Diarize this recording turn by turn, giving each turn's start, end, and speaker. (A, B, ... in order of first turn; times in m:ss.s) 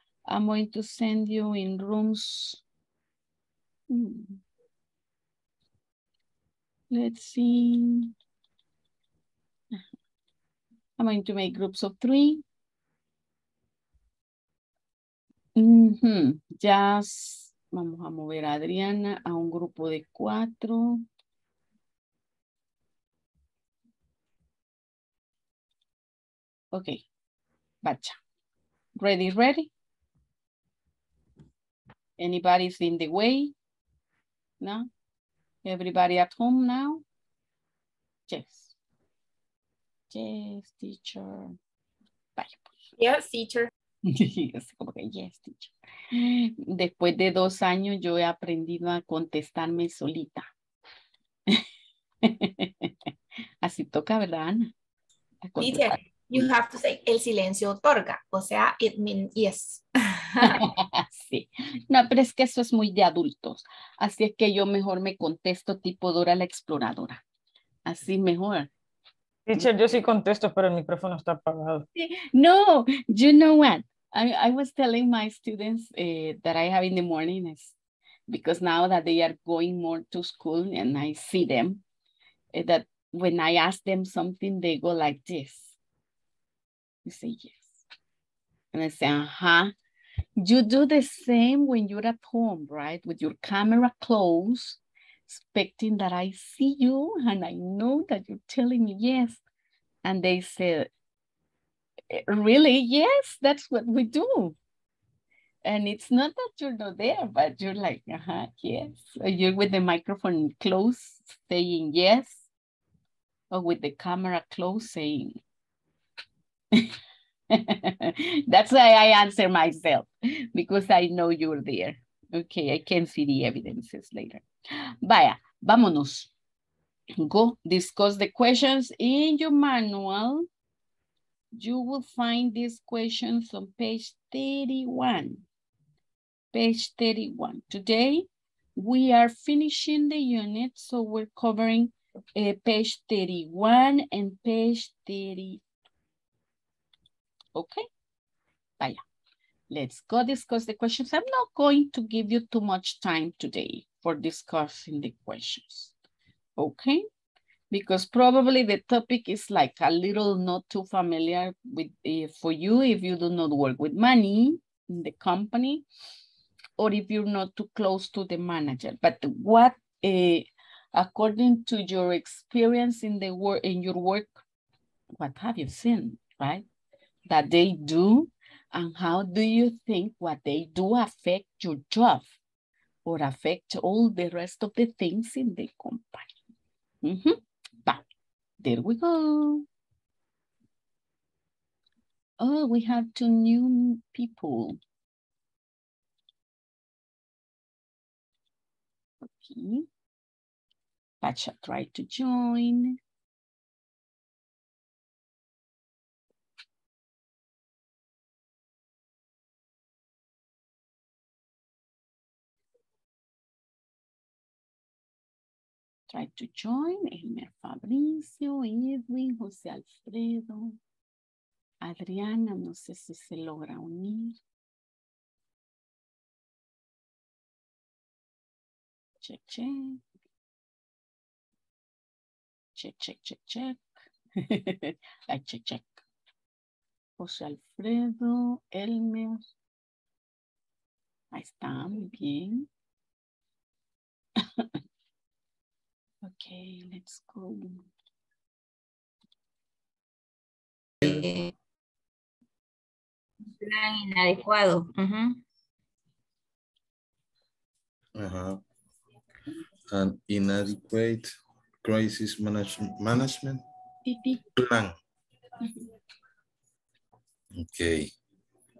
0:00.3-0:02.6 A
0:03.9-0:04.4 A
0:06.9-0:08.1 A
0:11.0-0:12.4 A
0:15.6-0:21.0 A
0:26.7-0:27.0 A
0:27.8-0:28.2 A
0:29.0-0:29.7 A
0:32.2-0:33.5 A
0:34.6-0:34.9 A
0:35.6-0:37.0 A
0:38.3-0:38.7 A
0:40.1-0:41.6 A
0:42.4-0:42.7 A
0:43.0-0:43.7 B
0:44.0-0:50.5 A
0:52.2-0:52.9 A
0:53.6-0:54.7 A
0:55.5-0:56.0 A
0:55.6-1:00.6 B
1:00.4-1:07.2 A
1:07.8-1:08.7 A
1:09.5-1:11.8 C
1:11.9-1:17.7 A
1:18.3-1:21.8 A
1:22.5-1:25.8 A
1:27.0-1:27.8 A
1:28.7-1:29.7 A
1:30.4-1:39.4 A
1:40.0-1:40.9 A
1:42.1-1:44.6 A
1:45.6-1:52.5 A
1:53.5-1:55.4 A
1:57.5-2:04.4 A
2:05.0-2:06.3 A
2:07.2-2:10.5 A
2:11.5-2:15.4 A
2:16.5-2:25.6 A
2:27.5-2:27.9 A
2:29.7-2:35.9 A
2:36.6-2:37.1 A
2:37.7-2:45.8 A
2:46.8-2:54.4 A
2:55.2-2:56.6 A
2:57.3-3:02.3 A
3:03.0-3:06.3 A
3:07.0-3:08.0 A
3:08.6-3:09.6 A
3:12.4-3:14.8 A
3:19.2-3:19.9 A
3:21.2-3:23.0 A
3:36.1-3:40.8 A
3:41.8-3:44.4 A
3:49.2-3:50.0 A
3:52.8-3:53.8 A
3:54.4-3:56.0 A
3:57.2-3:59.4 A
4:01.3-4:02.7 A
4:06.2-4:07.8 A
4:11.0-4:11.5 D
4:13.6-4:15.4 D
4:18.2-4:18.6 E
4:19.9-4:23.6 E
4:24.0-4:24.4 A
4:24.5-4:24.9 E
4:27.5-4:28.1 E